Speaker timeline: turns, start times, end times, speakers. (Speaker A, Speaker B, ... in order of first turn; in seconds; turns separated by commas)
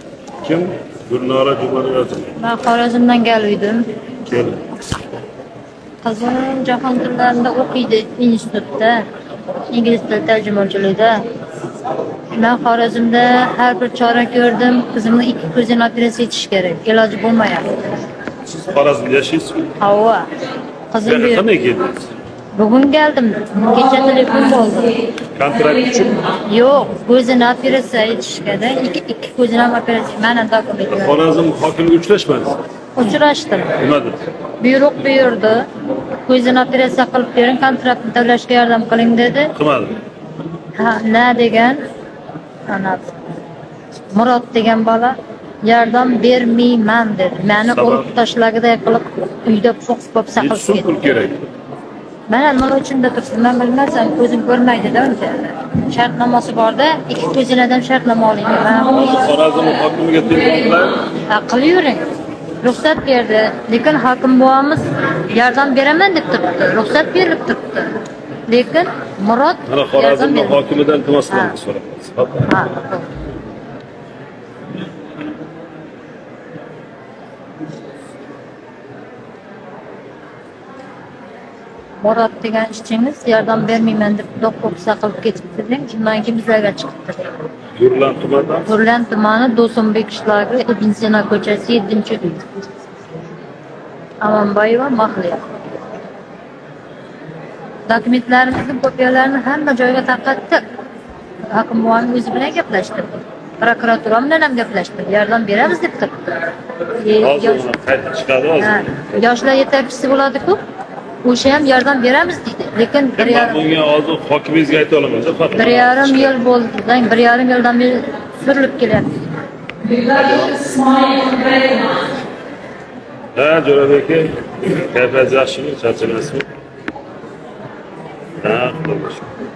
Speaker A: 0.4-2.3, Speaker B: 2.4-3.9, Speaker A: 4.3-4.6, Speaker B: 6.0-9.0, Speaker B: 9.7-11.2, Speaker B: 12.3-17.8, Speaker A: 18.6-19.7, Speaker B: 19.8-20.3, Speaker B: 20.9-21.5, Speaker A: 21.1-21.9, Speaker B: 22.5-25.0, Speaker A: 25.4-26.3, Speaker B: 26.5-31.2, Speaker A: 30.9-32.6, Speaker B: 33.0-33.7, Speaker A: 33.8-34.2, Speaker B: 34.6-35.7, Speaker B: 36.3-39.5, Speaker A: 39.6-40.0, Speaker B: 40.8-41.8, Speaker B: 42.7-43.2, Speaker B: 44.1-50.9, Speaker A: 47.7-48.1, Speaker A: 50.4-51.4, Speaker B: 52.3-59.2, Speaker A: 58.9-61.0, Speaker B: 61.3-62.0, Speaker B: 62.6-68.0, Speaker B: 68.5-70.7, Speaker A: 69.7-72.5, Speaker B: 71.3-71.6, Speaker B: 72.5-73.1, Speaker B: 82.0-87.3, Speaker A: 87.8-88.7, Speaker B: 88.7-92.5, Speaker B: 94.2-95.5, Speaker B: 97.9-100.6, Speaker B: 101.5-107.6, Speaker A: 107.2-109.1, Speaker B: 108.6-110.6, Speaker B: 111.2-113.6, Speaker A: 113.2-116.3, Speaker B: 115.5-119.3, Speaker A: 120.1-121.1, Speaker A: 123.3-126.5, Speaker A: 128.4-129.3